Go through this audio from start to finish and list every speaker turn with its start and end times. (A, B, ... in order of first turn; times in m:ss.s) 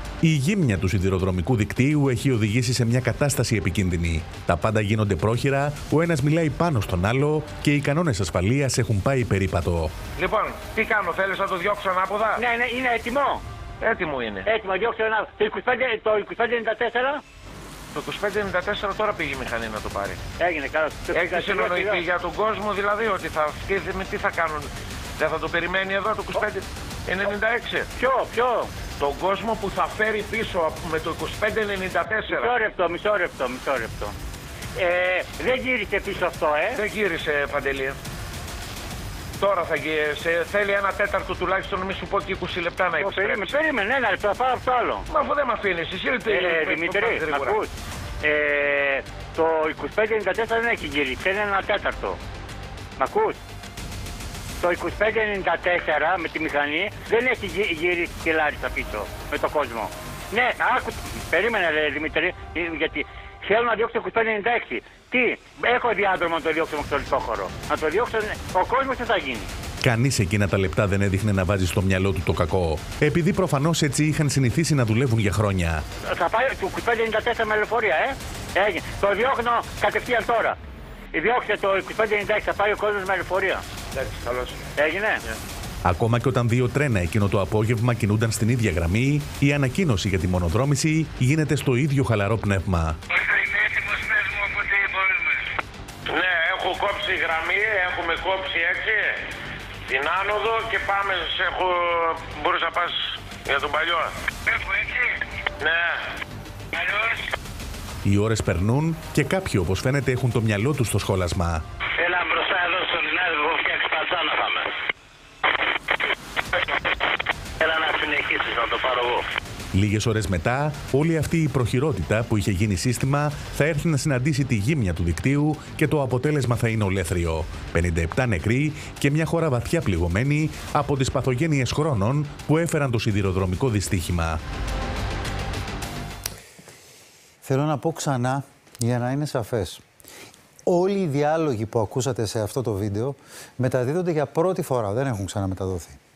0:00.2-0:09.9 A
0:10.2-0:12.4 B
0:12.4-0:13.4 C
0:13.8-0:14.5 B
0:14.5-0:17.2 C
0:17.9-0:20.2 B
0:20.4-0:22.0 C
0:21.1-0:27.9 B
0:28.0-0:28.7 C
0:29.0-0:32.5 B
0:32.3-0:34.1 C
0:34.8-0:36.8 C
0:36.8-0:38.0 B
0:39.4-0:43.6 B
0:43.0-0:45.1 C
0:45.1-0:47.6 B
0:46.3-0:47.7 C
0:48.2-0:52.2 C
0:53.0-0:53.4 C
0:54.6-1:09.5 C
1:09.8-1:15.8 A
1:16.1-1:20.6 C
1:21.1-1:23.6 C
1:23.9-1:24.6 B
1:24.8-1:25.2 C
1:25.8-1:33.0 A
1:36.1-1:39.2 B
1:39.9-1:44.1 B
1:45.6-1:46.0 B
1:48.0-1:51.6 A
1:52.0-1:54.7 D
1:57.6-1:59.2 D
1:59.7-2:14.4 A
2:17.4-2:19.8 E
2:20.7-2:26.0 E